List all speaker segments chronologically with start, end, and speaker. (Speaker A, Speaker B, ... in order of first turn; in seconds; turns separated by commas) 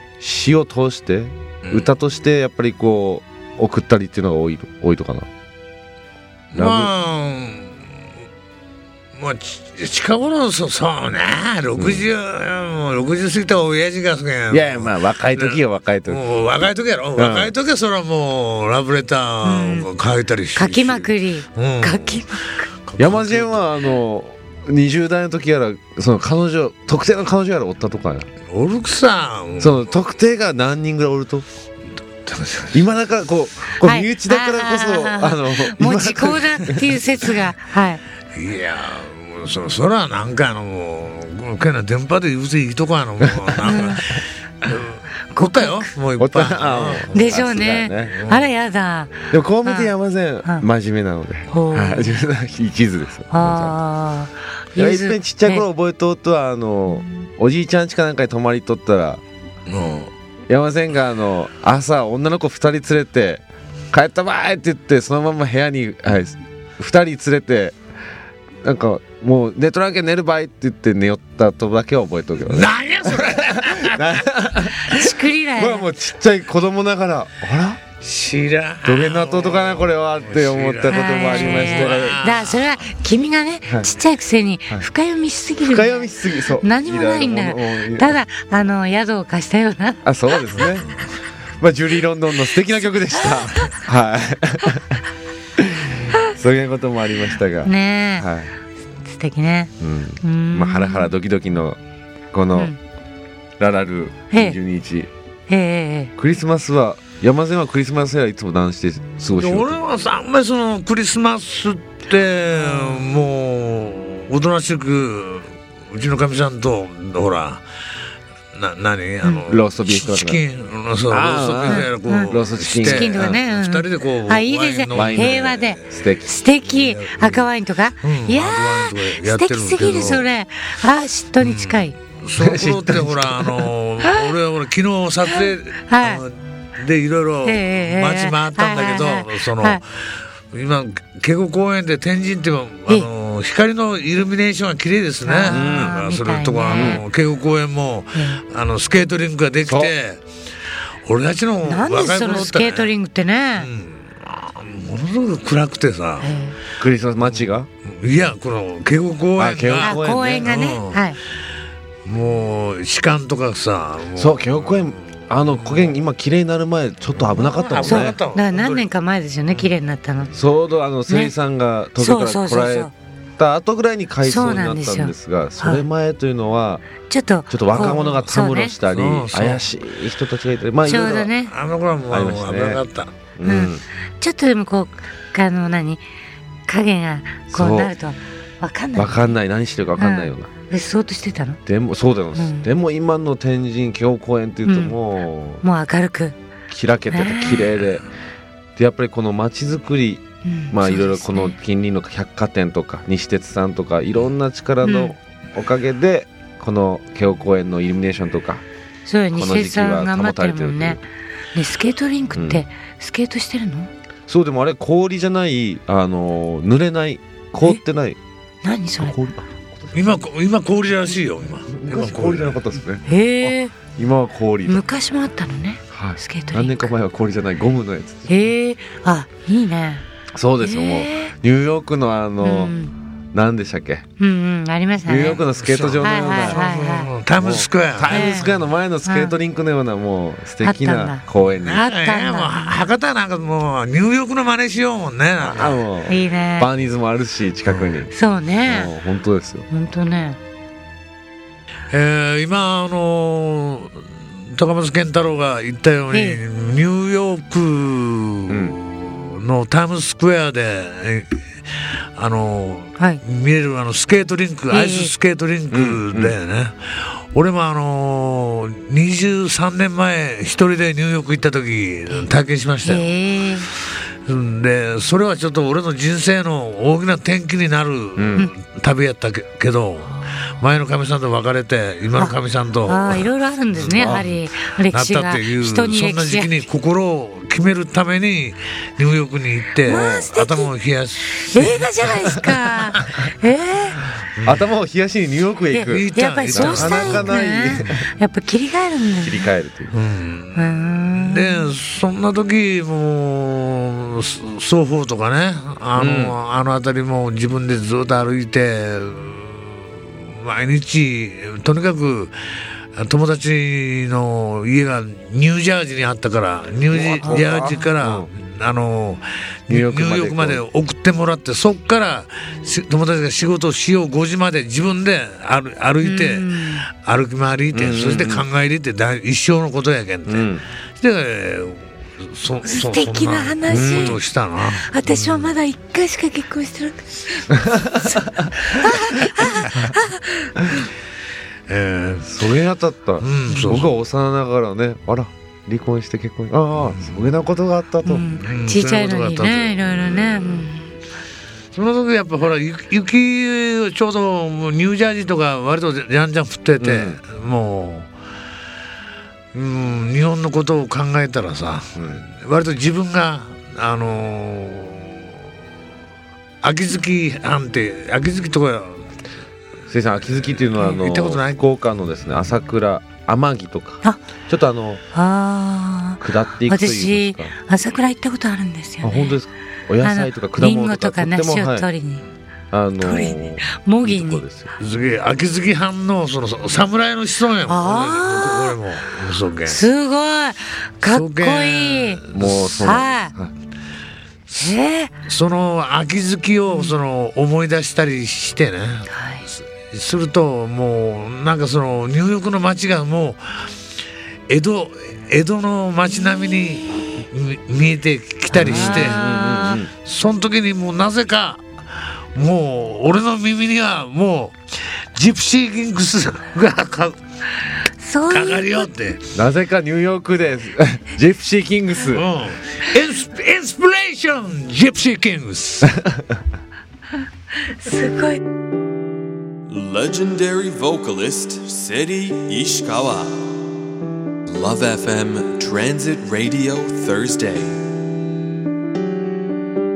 Speaker A: 0.2-5.3, Speaker B: 1.6-1.9, Speaker B: 6.5-7.7, Speaker A: 6.5-6.9, Speaker B: 9.2-22.2, Speaker A: 11.8-12.0, Speaker A: 14.5-16.2, Speaker A: 17.2-17.5, Speaker C: 19.4-19.9, Speaker C: 20.5-22.7, Speaker B: 22.9-23.7, Speaker A: 23.0-28.3, Speaker B: 28.5-29.9, Speaker A: 29.6-31.4, Speaker B: 32.2-32.9, Speaker A: 32.7-37.3, Speaker C: 33.8-38.0, Speaker B: 38.3-47.1, Speaker C: 43.6-44.0, Speaker C: 45.3-45.9, Speaker A: 46.2-48.2, Speaker C: 47.1-49.9, Speaker B: 48.1-48.5, Speaker A: 49.3-53.8, Speaker C: 51.5-52.2, Speaker C: 53.3-55.6, Speaker A: 54.8-59.2, Speaker B: 59.7-60.1, Speaker A: 60.5-67.8, Speaker A: 68.6-77.8, Speaker B: 72.4-74.0, Speaker C: 74.8-75.9, Speaker B: 78.0-82.7, Speaker A: 78.8-82.3, Speaker C: 80.9-90.0, Speaker A: 85.6-88.2, Speaker A: 90.0-90.9, Speaker A: 91.6-95.0, Speaker A: 95.6-98.5, Speaker C: 97.6-98.3, Speaker C: 99.0-101.1, Speaker A: 99.8-101.8, Speaker A: 102.3-102.7, Speaker A: 103.6-105.1, Speaker C: 104.3-104.6, Speaker C: 105.5-106.1, Speaker A: 106.2-109.8, Speaker B: 109.3-117.6, Speaker B: 118.5-126.1, Speaker A: 119.4-120.4, Speaker A: 121.1-123.4, Speaker C: 121.7-131.9, Speaker A: 124.9-126.3, Speaker B: 126.6-127.5, Speaker B: 128.0-130.3, Speaker B: 131.4-139.8, Speaker A: 132.4-133.6, Speaker C: 135.8-136.2, Speaker C: 137.4-139.8, Speaker B: 140.5-150.2, Speaker C: 145.2-147.0, Speaker A: 145.5-146.0, Speaker A: 146.7-147.0, Speaker C: 148.1-148.4, Speaker A: 149.6-149.9, Speaker B: 151.0-152.9, Speaker C: 151.6-153.7, Speaker B: 153.6-156.3, Speaker C: 156.2-156.5, Speaker A: 156.8-157.7, Speaker B: 157.2-161.0, Speaker A: 159.3-160.5, Speaker C: 159.8-161.2, Speaker B: 162.0-165.9, Speaker A: 164.1-168.2, Speaker B: 167.3-168.8, Speaker C: 167.8-170.3, Speaker A: 170.3-176.9, Speaker C: 171.1-171.3, Speaker C: 172.0-172.9, Speaker C: 174.2-175.8, Speaker C: 177.1-178.8, Speaker A: 177.5-181.3, Speaker B: 177.7-179.6, Speaker C: 180.8-181.5, Speaker B: 180.9-183.1, Speaker A: 182.1-182.8, Speaker A: 183.3-183.8, Speaker C: 183.4-186.0, Speaker C: 186.7-189.3, Speaker A: 187.5-187.9, Speaker A: 188.9-190.5, Speaker C: 190.0-191.6, Speaker A: 191.7-195.6, Speaker C: 192.3-192.7, Speaker C: 194.6-195.0, Speaker C: 195.6-196.3, Speaker A: 196.7-198.0, Speaker C: 197.1-197.7, Speaker A: 198.8-208.6, Speaker C: 200.4-201.6, Speaker C: 204.8-205.1, Speaker C: 209.0-211.0, Speaker A: 209.3-211.0, Speaker C: 211.5-213.9, Speaker A: 212.3-212.6, Speaker A: 214.3-218.2, Speaker C: 218.6-219.2, Speaker A: 219.0-220.1, Speaker B: 219.9-222.6, Speaker A: 221.8-224.8, Speaker C: 223.1-223.7, Speaker C: 224.7-226.9, Speaker A: 225.9-228.3, Speaker C: 228.3-230.0, Speaker A: 230.3-232.8, Speaker C: 230.6-231.3, Speaker C: 232.4-232.9, Speaker A: 233.3-234.0, Speaker C: 234.2-235.4, Speaker A: 235.1-236.7, Speaker B: 235.3-238.5, Speaker C: 236.0-237.1, Speaker A: 237.4-241.8, Speaker C: 238.1-238.5, Speaker C: 239.0-239.4, Speaker C: 240.6-242.7, Speaker B: 241.6-245.8, Speaker A: 245.4-248.1, Speaker C: 246.1-246.7, Speaker B: 247.7-248.0, Speaker C: 248.1-248.9, Speaker A: 248.7-249.7, Speaker C: 249.7-250.4, Speaker B: 251.9-261.3, Speaker C: 256.1-256.4, Speaker A: 258.5-258.8, Speaker B: 262.1-273.1, Speaker C: 264.7-265.1, Speaker A: 265.7-266.3, Speaker C: 272.8-273.7, Speaker B: 274.2-284.4, Speaker A: 278.2-278.5, Speaker C: 282.9-286.5, Speaker A: 283.9-284.2, Speaker B: 284.9-293.2, Speaker C: 289.8-290.7, Speaker A: 289.9-290.3, Speaker C: 291.5-294.0, Speaker B: 294.4-294.6, Speaker A: 294.4-298.0, Speaker C: 295.7-299.5, Speaker B: 295.9-297.9, Speaker A: 299.2-299.9, Speaker B: 299.9-312.4, Speaker C: 300.5-301.7, Speaker A: 305.9-306.4, Speaker B: 312.9-330.5, Speaker A: 316.9-318.3, Speaker A: 319.7-320.6, Speaker C: 326.0-326.9, Speaker A: 327.7-328.4, Speaker A: 330.2-330.6, Speaker B: 331.0-335.5, Speaker C: 332.6-340.8, Speaker A: 333.7-334.2, Speaker A: 337.7-339.1, Speaker B: 341.7-342.4, Speaker A: 342.2-348.3, Speaker B: 343.2-343.9, Speaker C: 343.5-343.8, Speaker B: 346.9-347.3, Speaker C: 348.0-350.9, Speaker B: 348.3-350.6, Speaker B: 351.7-358.1, Speaker A: 356.8-357.2, Speaker B: 359.5-365.3, Speaker A: 361.9-362.2, Speaker B: 366.6-369.0, Speaker A: 369.9-375.0, Speaker B: 370.8-371.6, Speaker C: 375.1-379.4, Speaker A: 376.2-377.5, Speaker A: 379.0-381.9, Speaker C: 380.0-382.2, Speaker A: 382.7-384.7, Speaker C: 383.0-384.4, Speaker B: 384.8-389.8, Speaker C: 387.7-388.8, Speaker C: 389.7-392.2, Speaker B: 391.0-392.9, Speaker A: 392.3-393.5, Speaker C: 392.8-393.3, Speaker C: 394.6-395.1, Speaker B: 395.2-403.7, Speaker C: 399.1-399.4, Speaker B: 404.5-411.6, Speaker A: 408.5-409.9, Speaker C: 408.6-409.8, Speaker B: 412.3-417.2, Speaker C: 417.9-418.9, Speaker B: 418.3-419.2, Speaker A: 419.3-422.2, Speaker B: 422.1-425.9, Speaker C: 427.6-428.4, Speaker D: 429.7-433.2, Speaker D: 434.5-437.6